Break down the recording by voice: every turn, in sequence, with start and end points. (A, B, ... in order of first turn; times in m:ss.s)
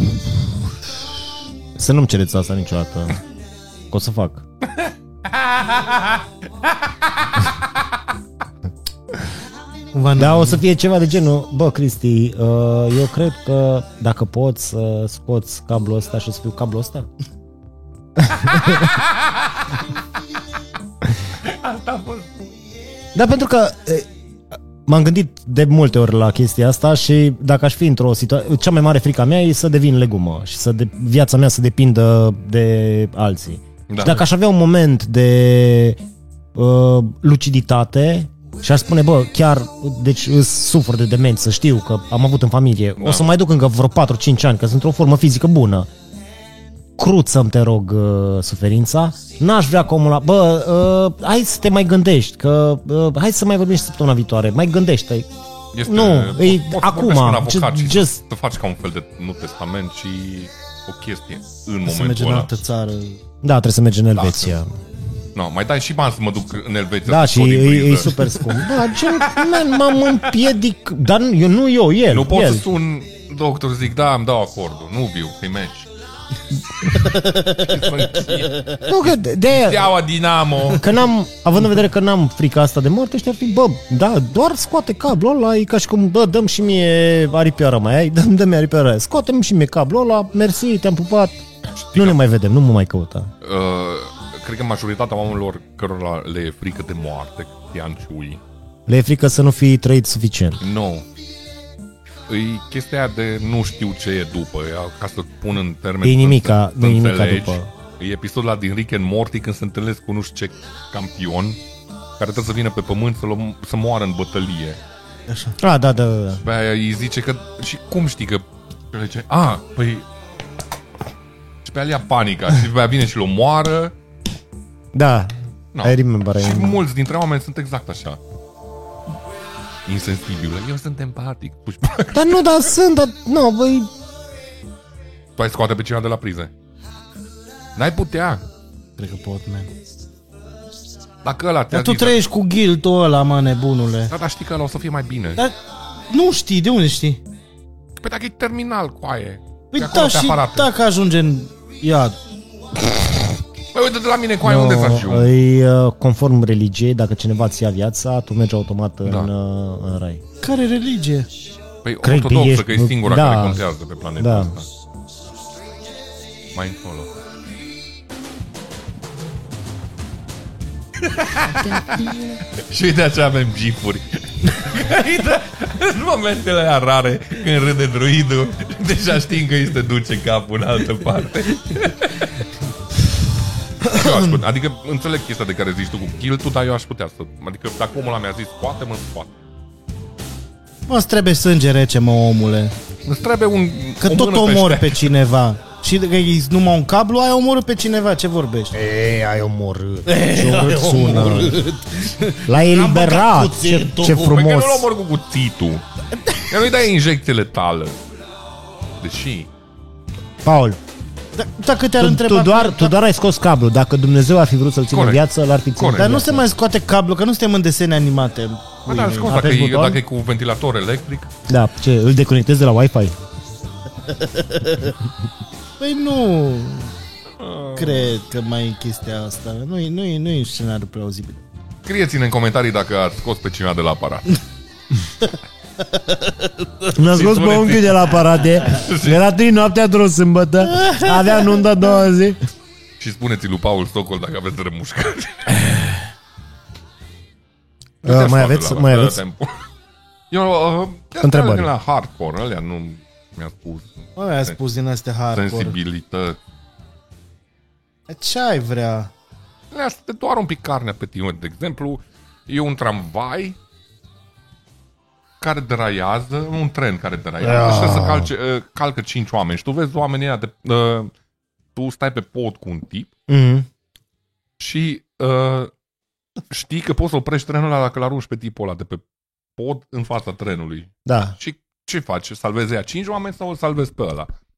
0:01.8-0:03.2 A
0:03.9-0:04.4 A
0:04.7-0:07.6 B
0:09.9-0:10.6 C
0:10.2-0:17.1 A
0:18.2-0:19.0 A
0:19.0-0:19.8 B
0:21.4-0:22.5 B
0:23.1-0:24.1 A
0:24.9-0:36.0 A
0:33.9-0:34.3 B
0:36.6-0:45.9 A
0:43.0-0:43.3 B
0:47.0-0:55.3 A
0:55.7-1:02.5 B
0:55.9-0:58.2 A
1:01.8-1:03.2 C
1:03.4-1:04.7 A
1:04.2-1:04.6 B
1:05.3-1:08.2 B
1:07.1-1:12.6 A
1:12.1-1:15.9 B
1:16.9-1:20.9 B
1:16.9-1:17.7 C
1:18.2-1:18.6 C
1:18.9-1:19.9 A
1:20.7-1:33.3 A
1:31.7-1:32.2 B
1:33.4-1:38.4 B
1:38.9-1:40.6 A
1:40.6-1:41.0 B
1:42.3-1:51.6 B
1:46.0-1:47.7 A
1:52.2-1:54.8 B
1:55.3-1:55.6 C
1:55.6-1:56.4 A
1:56.4-2:00.0 B
2:01.6-2:03.9 B
2:04.9-2:06.8 A
2:05.7-2:08.2 B
2:09.9-2:12.7 B
2:12.1-2:13.9 A
2:15.4-2:16.5 B
2:17.8-2:18.4 B
2:19.0-2:19.7 C
2:21.2-2:22.2 B
2:21.7-2:24.1 C
2:24.1-2:25.4 B
2:26.1-2:27.2 C
2:28.0-2:30.7 B
2:29.7-2:32.2 C
2:33.7-2:35.3 B
2:34.4-2:40.2 A
2:39.0-2:39.3 B
2:40.4-2:41.3 C
2:41.8-2:44.7 B
2:42.0-2:43.6 A
2:44.2-2:44.5 A
2:46.6-2:47.1 B
2:51.0-3:02.4 B
3:03.8-3:09.3 B
3:03.9-3:04.2 A
3:10.9-3:12.7 C
3:13.0-3:15.0 B
3:14.0-3:18.7 C
3:18.7-3:21.6 A
3:20.0-3:24.4 C
3:22.4-3:24.9 A
3:24.1-3:28.0 B
3:29.0-3:29.5 B
3:30.4-3:30.8 A
3:31.4-3:33.0 C
3:32.0-3:36.5 A
3:34.9-3:36.1 B
3:36.0-3:39.4 C
3:38.9-3:41.3 B
3:39.2-3:40.0 A
3:41.5-3:43.1 A
3:44.1-3:44.9 C
3:45.8-3:46.9 C
3:47.4-3:48.2 B
3:47.7-3:51.4 C
3:51.8-3:54.4 B
3:55.9-3:56.7 C
3:56.9-4:02.4 A
3:57.0-3:59.3 B
4:00.8-4:01.4 C
4:03.0-4:05.7 B
4:08.0-4:09.2 A
4:08.0-4:09.6 B
4:10.3-4:14.6 B
4:11.2-4:11.7 A
4:14.2-4:15.8 C
4:15.3-4:16.4 B
4:18.1-4:19.1 C
4:19.7-4:23.6 B
4:25.4-4:31.1 B
4:27.4-4:28.3 A
4:31.7-4:33.1 B
4:33.3-4:33.7 A
4:34.6-4:35.7 B
4:36.5-4:39.0 B
4:39.6-4:44.3 B
4:41.0-4:41.4 A